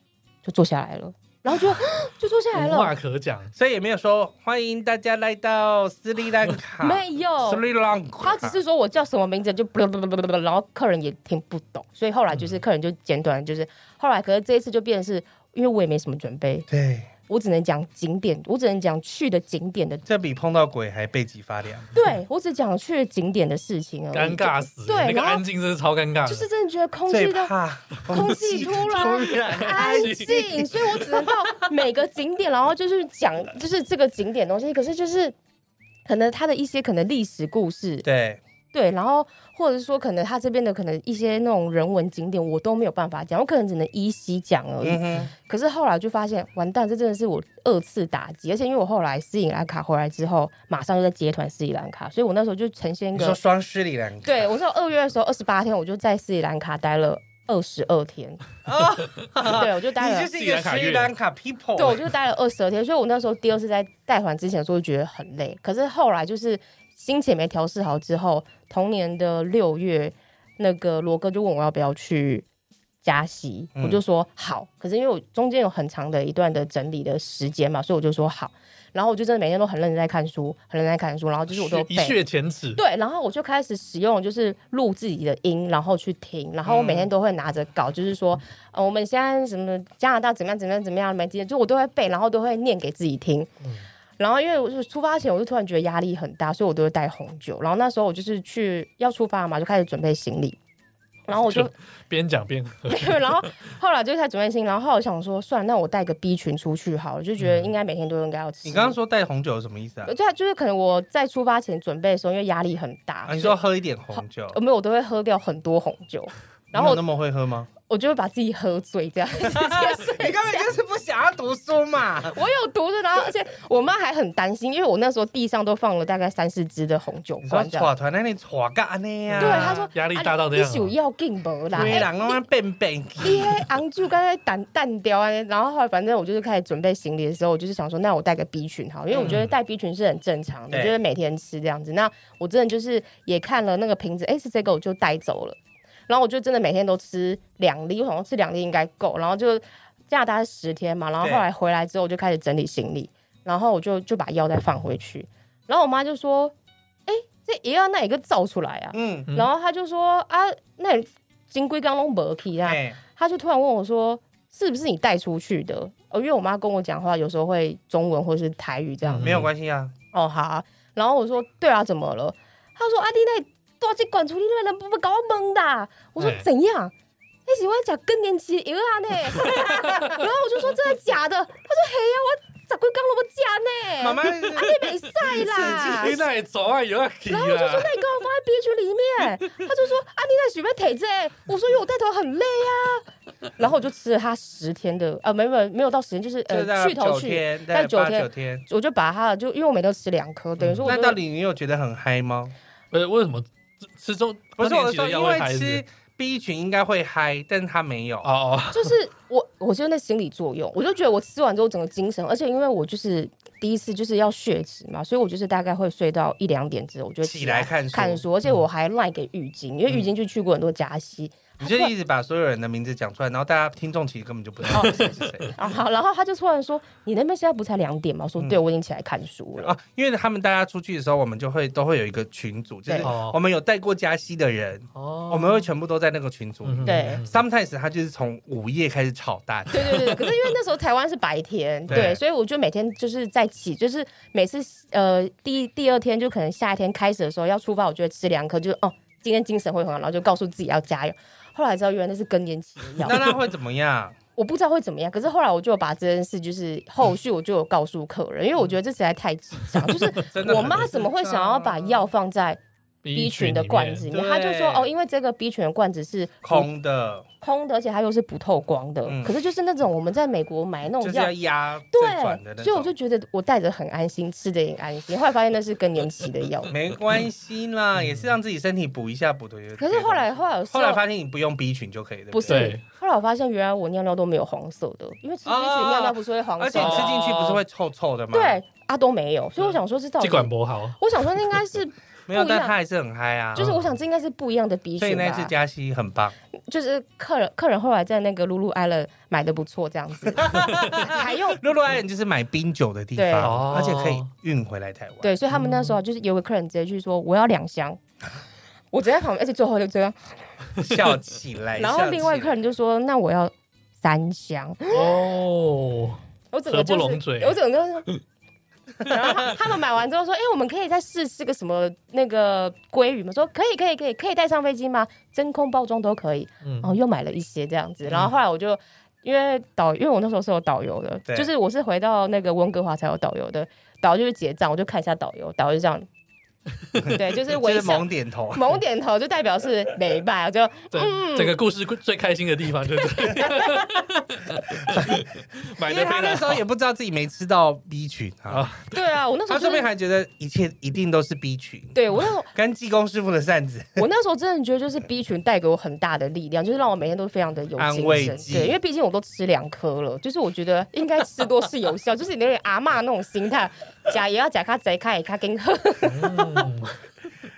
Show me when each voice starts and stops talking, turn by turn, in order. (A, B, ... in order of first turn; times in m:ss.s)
0:00.4-0:02.9 A
0:02.6-0:03.5 B
0:03.5-0:08.6 C
0:06.8-0:07.6 A
0:08.2-0:16.7 A
0:16.7-0:17.1 C
0:17.3-0:20.0 A
0:20.0-0:21.9 C
0:21.9-0:25.4 A
0:24.1-0:26.5 B
0:26.2-0:27.5 A
0:27.1-0:30.6 C
0:28.0-0:31.1 B
0:28.1-0:35.4 A
0:36.0-0:38.0 A
0:38.0-0:38.4 C
0:38.7-0:53.4 A
0:44.8-0:45.3 C
0:53.1-0:54.5 C
0:54.2-0:58.4 A
0:58.6-1:02.0 C
0:59.4-1:00.3 A
1:00.3-1:01.1 B
1:01.8-1:12.4 A
1:13.0-1:22.2 A
1:21.5-1:22.8 B
1:22.8-1:33.5 A
1:26.6-1:27.1 C
1:34.2-1:40.6 A
1:41.3-1:41.7 A
1:41.3-1:43.5 B
1:42.8-1:49.0 A
1:47.4-1:47.7 B
1:48.6-1:50.1 C
1:50.0-1:53.6 A
1:53.2-1:54.6 C
1:54.1-1:57.0 A
1:56.7-1:57.7 C
1:57.9-2:00.8 A
1:59.4-2:02.4 C
2:02.3-2:07.9 A
2:07.4-2:09.9 C
2:09.3-2:10.9 B
2:09.4-2:12.4 A
2:11.7-2:13.6 C
2:11.8-2:12.0 B
2:13.2-2:36.5 A
2:19.1-2:19.4 C
2:20.7-2:20.9 C
2:31.2-2:31.5 C
2:37.1-2:49.4 A
2:38.9-2:39.3 C
2:42.6-2:43.0 C
2:49.0-2:49.5 B
2:49.2-2:49.9 C
2:50.1-2:56.9 A
2:56.2-2:56.4 B
2:57.4-3:06.2 A
3:04.0-3:04.7 C
3:05.2-3:08.0 B
3:07.3-3:13.0 A
3:13.6-3:21.2 A
3:16.5-3:18.6 C
3:20.6-3:20.9 B
3:20.8-3:22.5 C
3:22.9-3:25.8 B
3:24.6-3:28.3 C
3:28.2-3:28.9 B
3:28.7-3:41.9 A
3:37.2-3:38.2 C
3:41.6-3:45.5 C
3:44.7-3:49.8 A
3:49.6-4:00.2 C
3:53.0-3:53.4 B
3:54.9-3:55.6 B
3:56.6-3:57.4 B
3:56.8-3:57.2 A
3:59.7-4:13.2 A
4:01.9-4:02.2 C
4:13.0-4:14.2 C
4:14.4-4:22.6 A
4:19.9-4:20.8 B
4:20.3-4:22.1 C
4:23.0-4:24.0 B
4:23.1-4:26.7 A
4:24.1-4:24.9 C
4:26.4-4:27.2 C
4:27.4-4:31.3 A
4:29.0-4:29.3 C
4:31.0-4:32.9 C
4:31.9-4:36.7 A
4:36.7-4:42.7 C
4:38.0-4:38.3 B
4:39.8-4:41.0 A
4:42.3-4:47.1 A
4:42.5-4:42.8 B
4:45.4-4:48.6 C
4:46.7-4:47.6 B
4:48.3-4:52.8 A
4:49.6-4:51.3 B
4:52.3-4:53.7 C
4:53.6-4:55.5 A
4:53.6-4:53.9 B
4:55.0-4:56.3 C
4:56.7-5:01.6 A
5:00.4-5:05.3 C
5:03.2-5:03.5 A
5:03.4-5:04.3 B
5:05.2-5:08.0 A
5:05.5-5:06.0 B
5:08.9-5:10.4 A
5:10.8-5:12.6 C
5:11.8-5:15.1 A
5:14.9-5:17.6 B
5:16.5-5:18.0 A
5:19.1-5:36.1 A
5:26.6-5:26.9 B
5:28.0-5:28.3 C
5:37.1-5:41.6 A
5:37.5-5:38.8 C
5:40.9-5:46.6 B
5:45.8-5:48.7 C
5:48.5-5:49.0 B
5:48.9-5:49.9 A
5:49.5-5:52.0 C
5:51.9-5:52.5 A
5:52.5-5:54.0 C
5:54.0-6:06.7 A
5:57.8-5:58.8 C
6:06.0-6:07.0 B